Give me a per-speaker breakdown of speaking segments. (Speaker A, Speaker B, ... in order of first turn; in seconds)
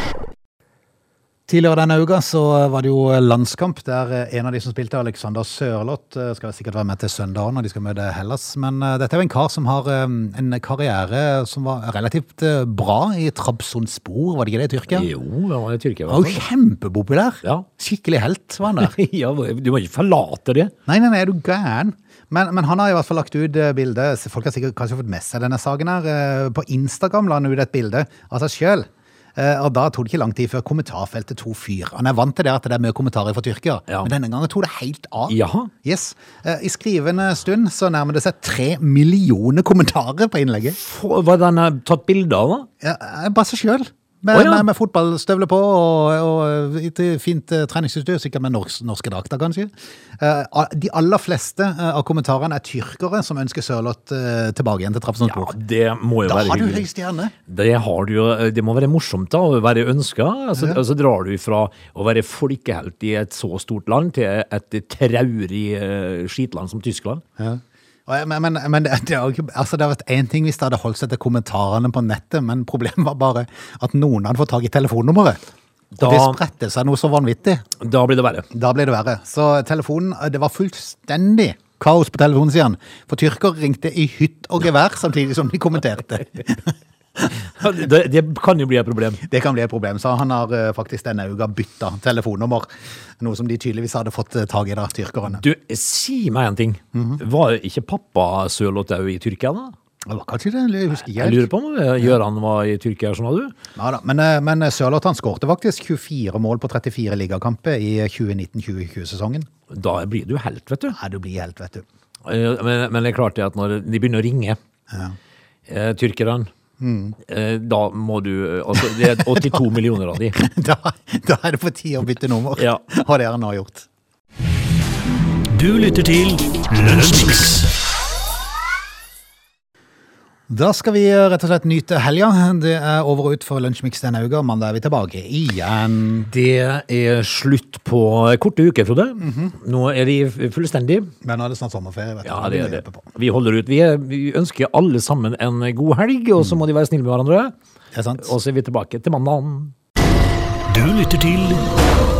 Speaker A: 1.5-15.1, 16.1-18.9, 20.9-40.8, 42.8-55.5, 56.2-57.3, 67.4-75.4, 76.0-77.6, 78.5-87.4, 89.2-95.4, 96.9-97.2, 100.0-101.5, 103.8-109.5, 110.9-111.8, 114.9-115.2, 116.8-117.2, 118.9-119.7, 120.2-123.9, 130.5-136.3, 139.2-139.5, 141.2-143.1, 147.9-148.3
Speaker B: 14.9-16.4, 18.7-20.7, 35.3-35.7, 40.8-42.7, 44.3-44.7, 55.2-56.9, 57.5-67.2, 75.9-76.4, 77.8-78.5, 87.4-89.2, 95.3-99.7, 101.0-103.5, 109.7-111.0, 112.2-114.6, 115.7-116.5, 117.2-120.3, 122.5-122.8, 136.3-141.1, 142.2-147.5, 148.2-149.7
Speaker C: 125.5-127.7, 150.7-151.7